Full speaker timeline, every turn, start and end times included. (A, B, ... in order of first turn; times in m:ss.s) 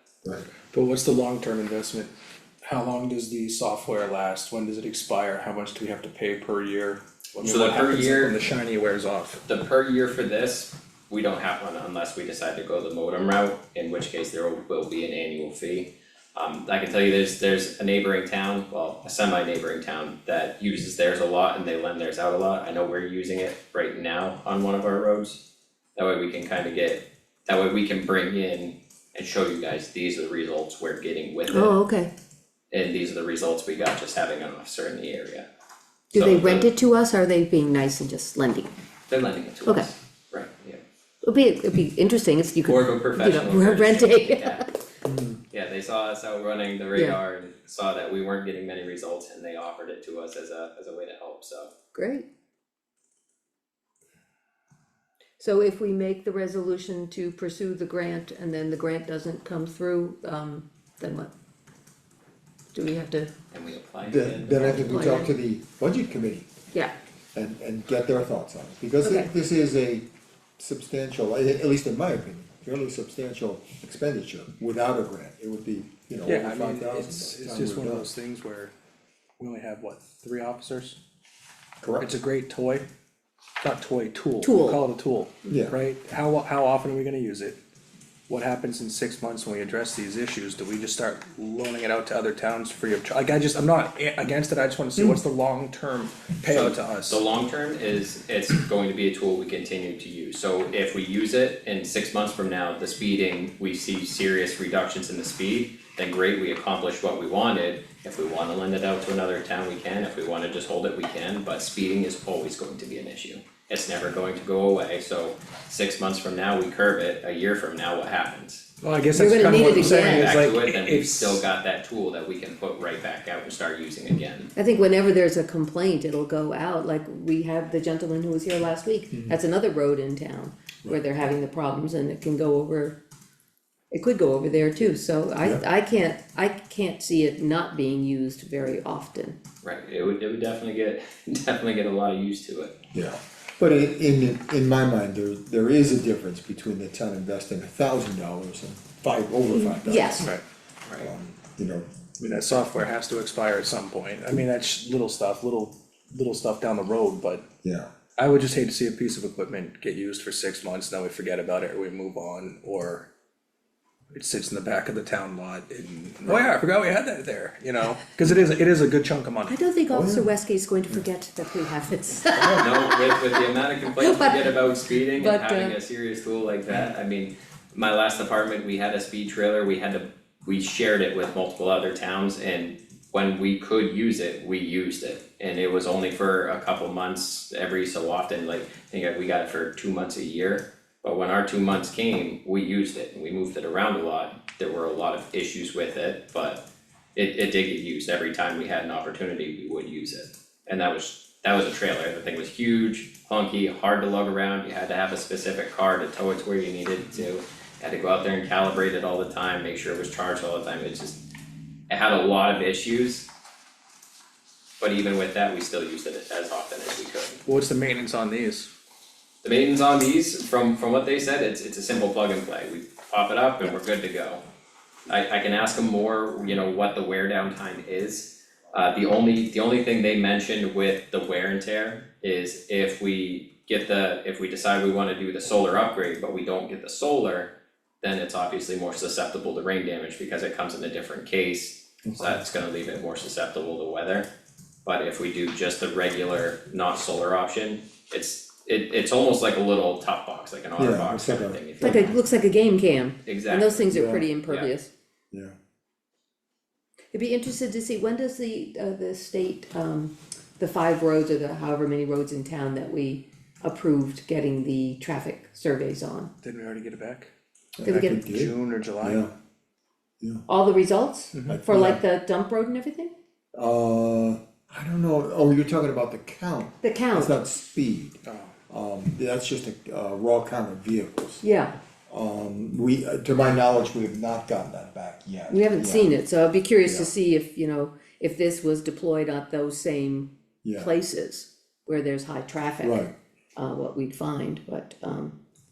0:00.7-0:02.1 A
0:02.6-0:09.4 A
0:07.4-0:08.4 B
0:09.5-0:25.4 B
0:26.0-0:31.8 B
0:31.5-0:32.1 C
0:32.7-0:35.5 B
0:36.1-0:36.7 B
0:36.1-0:38.7 C
0:39.1-0:40.8 B
0:39.6-0:39.9 C
0:41.2-0:44.7 C
0:42.6-0:44.7 B
0:45.0-0:45.4 D
0:45.5-0:51.7 B
0:46.9-0:47.2 C
0:51.9-0:52.3 C
0:55.4-1:01.3 C
1:02.7-1:03.3 C
1:03.5-1:05.2 B
1:04.0-1:06.5 D
1:04.6-1:05.3 C
1:07.3-1:10.1 D
1:09.0-1:09.3 C
1:10.6-1:18.1 D
1:16.3-1:18.7 A
1:19.4-1:21.0 A
1:21.8-1:22.2 D
1:22.0-1:22.9 A
1:23.6-1:27.6 A
1:24.4-1:24.8 C
1:25.5-1:25.8 D
1:28.3-1:37.2 A
1:36.4-1:58.7 B
1:58.8-2:01.4 A
1:59.1-2:00.4 C
1:59.4-2:04.5 B
2:04.6-2:13.0 C
2:09.1-2:09.4 D
2:13.9-2:19.4 C
2:19.6-2:22.8 B
2:22.9-2:30.3 D
2:29.5-2:30.3 C
2:30.8-2:31.1 B
2:31.0-2:31.9 D
2:32.2-2:37.4 A
2:37.6-2:37.9 D
2:38.2-2:43.1 A
2:44.1-2:49.6 A
2:49.5-2:53.4 C
2:49.9-2:50.4 D
2:52.6-3:16.6 B
2:54.0-2:55.8 C
3:17.2-3:31.2 B
3:31.9-3:33.3 B
3:34.8-3:37.4 B
3:37.4-3:38.7 A
3:39.4-3:44.4 B
3:45.1-4:04.3 B
4:02.0-4:02.4 D
4:04.8-4:12.2 B
4:10.8-4:12.1 D
4:11.8-4:14.9 C
4:13.3-4:13.9 B
4:13.9-4:14.3 D
4:14.4-4:14.7 B
4:17.1-4:26.3 C
4:26.4-4:27.3 A
4:27.8-4:29.3 D
4:27.8-4:28.2 C
4:27.9-4:29.3 A
4:30.2-4:30.5 D
4:30.5-4:33.1 C
4:31.3-4:31.6 A
4:31.4-4:32.0 D
4:33.5-4:41.4 D
4:36.8-4:37.4 C
4:38.2-4:38.6 A
4:41.4-4:41.8 C
4:42.1-4:46.2 D
4:45.5-4:55.4 C
4:46.8-4:47.1 D
4:50.6-4:50.9 D
4:52.8-4:53.1 D